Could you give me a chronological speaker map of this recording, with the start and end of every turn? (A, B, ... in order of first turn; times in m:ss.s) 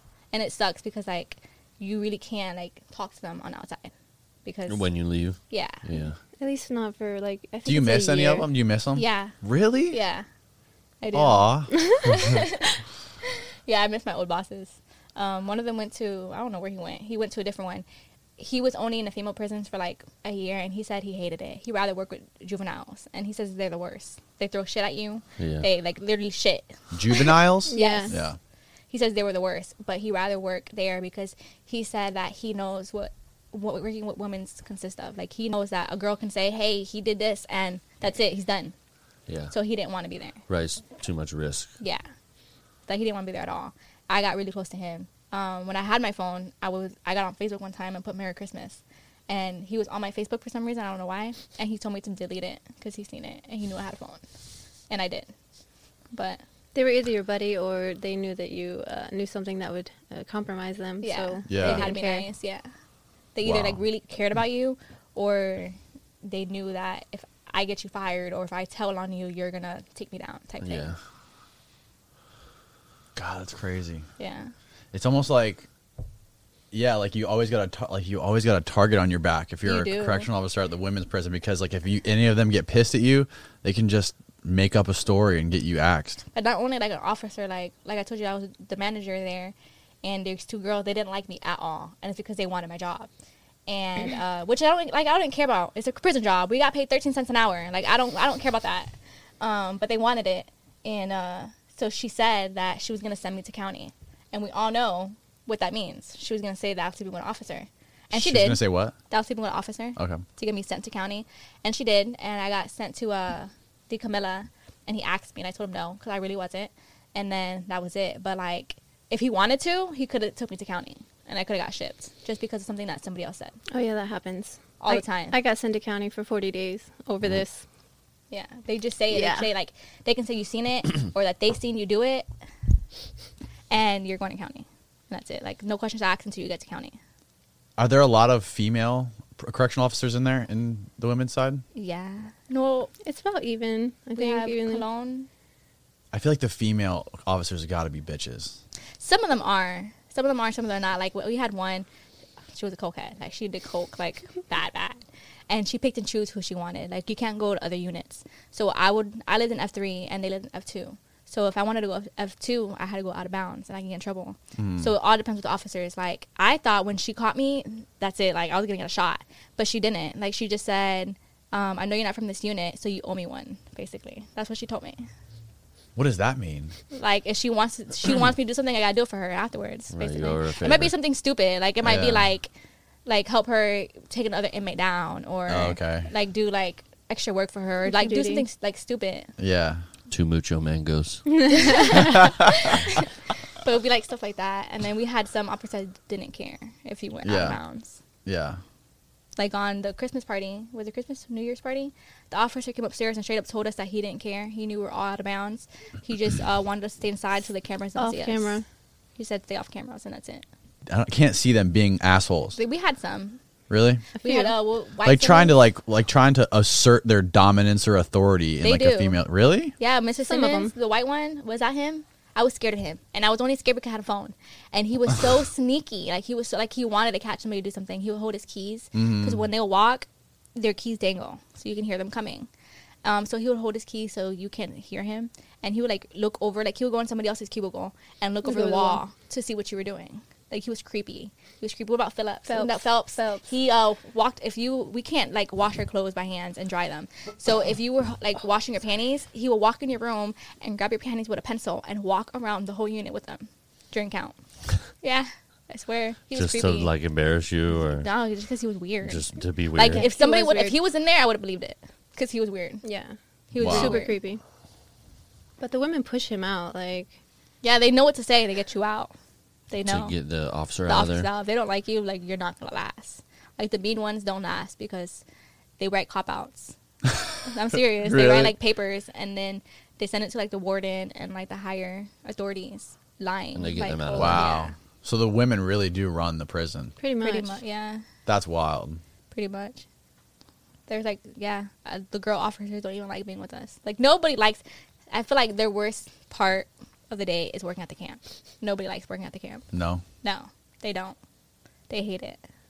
0:00.3-0:03.9 A
0:04.4-0:04.8 A
0:04.7-0:06.2 B
0:05.5-0:05.8 A
0:06.4-0:08.5 C
0:07.6-0:10.0 D
0:09.0-0:09.4 A
0:09.9-0:10.2 A
0:11.0-0:12.7 A
0:11.1-0:11.7 D
0:11.7-0:12.0 C
0:13.6-0:17.8 A
0:18.4-0:28.2 A
0:25.4-0:25.6 B
0:26.9-0:28.4 D
0:27.7-0:28.2 C
0:28.9-0:38.7 A
0:39.3-0:39.5 B
0:39.5-0:40.4 A
0:40.5-0:41.7 B
0:42.9-0:54.2 A
0:54.9-0:55.3 A
0:56.1-0:56.4 A
0:56.7-1:02.3 C
1:01.0-1:02.7 A
1:01.5-1:01.9 D
1:03.3-1:10.9 A
1:03.4-1:03.8 D
1:10.6-1:11.0 B
1:13.2-1:14.0 D
1:14.2-1:14.5 A
1:14.9-1:15.7 D
1:16.7-1:26.2 D
1:19.6-1:20.3 A
1:26.3-1:33.1 A
1:33.7-2:03.6 A
1:48.1-1:48.9 D
1:50.0-1:50.2 D
2:03.7-2:07.6 C
2:04.8-2:05.4 A
2:08.3-2:12.3 A
2:09.1-2:09.5 C
2:13.7-2:17.0 A
2:17.8-2:21.6 D
2:21.7-2:22.9 A
2:23.0-2:24.8 C
2:24.2-2:25.3 A
2:26.1-2:28.6 D
2:29.0-2:31.9 A
2:32.5-2:55.0 A
2:44.6-2:44.9 D
2:56.0-2:56.7 D
2:56.9-3:02.5 A
2:59.9-3:00.9 B
3:01.8-3:02.3 D
3:03.0-3:09.3 A
3:05.5-3:06.1 D
3:07.8-3:08.4 C
3:09.4-3:09.8 D
3:10.1-3:11.2 B
3:11.4-3:12.2 C
3:11.5-3:13.1 A
3:13.6-3:18.0 A
3:17.2-3:17.6 D
3:18.2-3:18.6 D
3:19.4-3:28.6 A
3:28.0-3:28.6 C
3:29.2-3:30.4 A
3:30.9-3:32.6 D
3:32.6-3:33.4 A
3:33.7-3:34.0 D
3:34.2-3:34.5 C
3:34.2-3:35.6 A
3:35.0-3:39.7 D
3:38.6-3:39.2 A
3:39.8-3:52.5 A
3:40.2-3:40.7 C
3:48.9-3:49.4 D
3:53.0-4:14.4 A
3:58.4-3:59.0 C
4:02.4-4:03.4 C
4:15.0-4:16.9 A
4:16.3-4:18.1 B
4:18.0-4:22.8 A
4:19.0-4:20.1 B
4:19.8-4:20.8 C
4:22.8-4:24.4 C
4:23.5-4:24.2 A
4:23.6-4:24.0 D
4:25.6-4:27.1 C
4:27.6-4:29.1 A
4:29.7-4:30.2 A
4:29.8-4:31.3 B
4:30.8-4:35.2 A
4:35.8-4:36.7 A
4:37.4-4:44.7 A
4:38.0-4:38.5 D
4:43.5-4:44.5 B
4:44.1-4:46.9 D
4:47.0-4:47.6 C
4:47.2-4:48.0 A
4:48.2-4:49.0 D
4:49.3-4:49.8 A
4:50.9-4:59.7 A
4:59.7-5:00.0 D
5:00.2-5:01.2 A
5:01.9-5:02.4 A